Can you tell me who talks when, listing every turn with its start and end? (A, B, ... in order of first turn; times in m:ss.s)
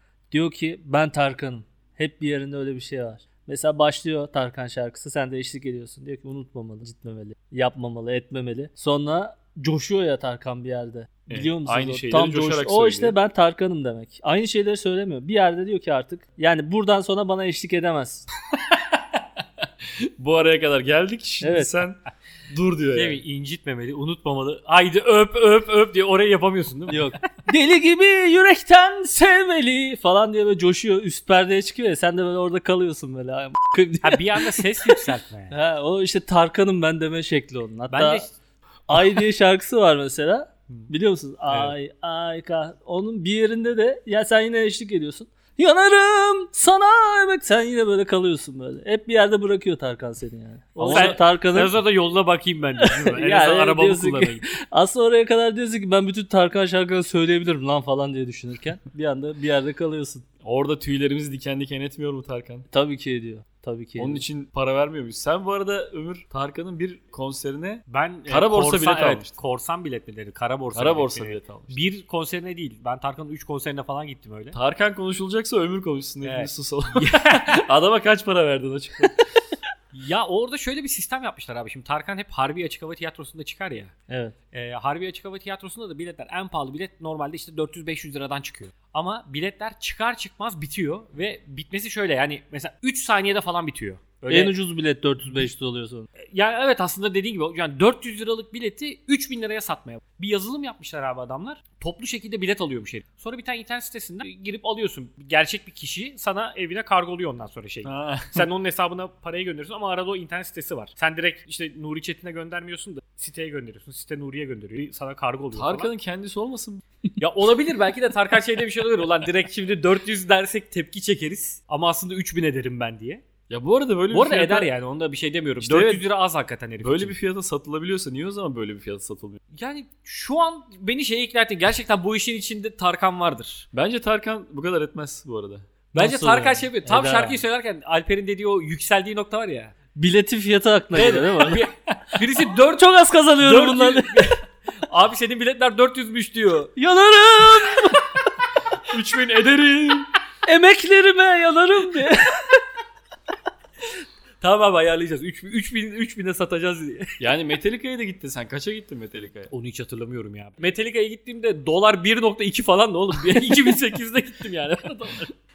0:00.3-0:18.2 A
0:11.3-0:13.2 B
0:18.6-0:19.0 B
0:20.0-0:23.2 B
0:21.4-0:21.7 A
0:22.9-0:27.1 C
0:26.9-0:38.2 A
0:34.0-0:35.6 C
0:37.9-0:38.3 C
0:38.9-0:51.8 A
0:41.5-0:41.7 C
0:50.8-0:51.2 B
0:50.8-0:54.4 C
0:52.8-1:00.2 A
1:00.4-1:02.6 B
1:02.7-1:04.2 A
1:04.0-1:09.3 B
1:07.9-1:14.6 C
1:10.7-1:11.8 B
1:14.5-1:19.3 B
1:16.2-1:17.5 C
1:19.9-1:23.9 C
1:24.1-1:24.3 A
1:24.5-1:34.6 C
1:34.3-1:36.1 A
1:36.2-1:55.9 C
1:47.8-1:48.5 B
1:55.5-1:56.8 B
1:57.2-2:03.2 C
2:03.5-2:04.7 B
2:04.1-2:07.1 C
2:05.6-2:06.0 B
2:06.8-2:09.4 B
2:09.5-2:13.7 C
2:13.7-2:15.6 B
2:15.9-2:17.4 A
2:15.9-2:19.7 C
2:19.9-2:21.6 A
2:20.9-2:26.7 C
2:22.6-2:24.3 A
2:26.8-2:28.2 A
2:28.8-2:30.1 B
2:30.4-2:32.6 A
2:34.4-2:37.1 C
2:37.2-2:39.5 B
2:39.5-2:45.3 C